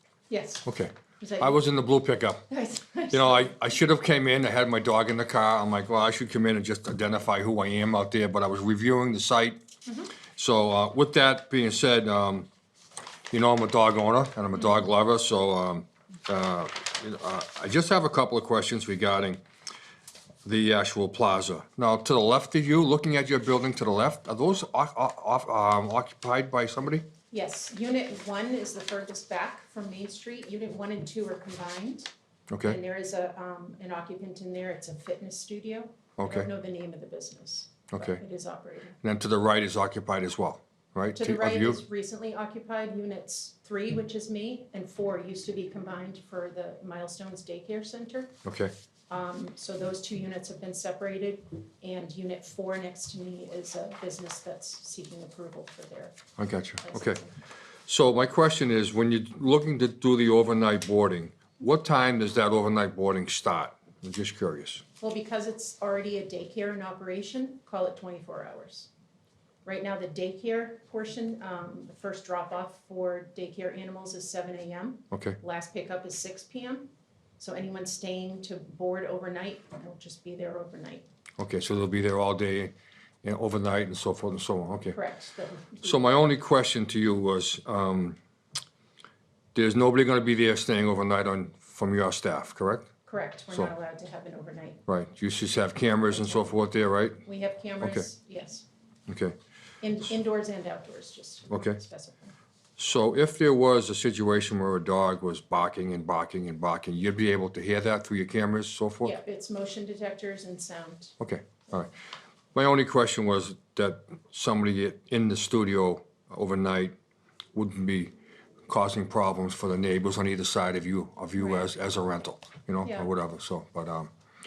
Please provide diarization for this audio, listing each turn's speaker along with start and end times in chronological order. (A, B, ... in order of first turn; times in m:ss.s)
0:00.3-0:01.7 A
0:00.6-0:02.4 B
0:02.5-0:03.6 A
0:03.1-0:09.6 B
0:09.8-0:10.1 A
0:10.3-0:12.5 B
0:13.3-0:19.4 B
0:20.4-0:27.1 B
0:27.3-0:32.1 A
0:32.5-0:32.8 B
0:32.6-0:39.0 A
0:36.2-0:36.5 B
0:37.9-0:38.2 B
0:39.0-0:41.8 B
0:41.1-0:48.3 A
0:48.4-0:48.7 B
0:49.1-0:56.2 A
0:56.4-0:57.2 B
0:56.8-0:57.3 A
0:57.9-1:04.8 B
1:05.0-1:08.9 A
1:09.6-1:21.0 A
1:15.1-1:15.4 B
1:21.4-1:25.0 B
1:24.9-1:26.2 A
1:25.8-1:28.2 B
1:29.5-1:32.9 B
1:33.0-1:34.8 A
1:34.9-1:37.2 B
1:36.1-1:36.6 A
1:37.2-1:38.6 A
1:37.8-1:38.1 B
1:39.1-1:39.4 B
1:39.8-1:42.3 A
1:41.5-1:41.8 B
1:42.8-1:49.2 B
1:49.0-1:51.1 A
1:51.2-1:51.9 B
1:52.5-1:56.9 B
1:57.5-1:58.1 B
1:58.7-2:04.1 B
2:01.4-2:01.7 A
2:02.8-2:03.1 A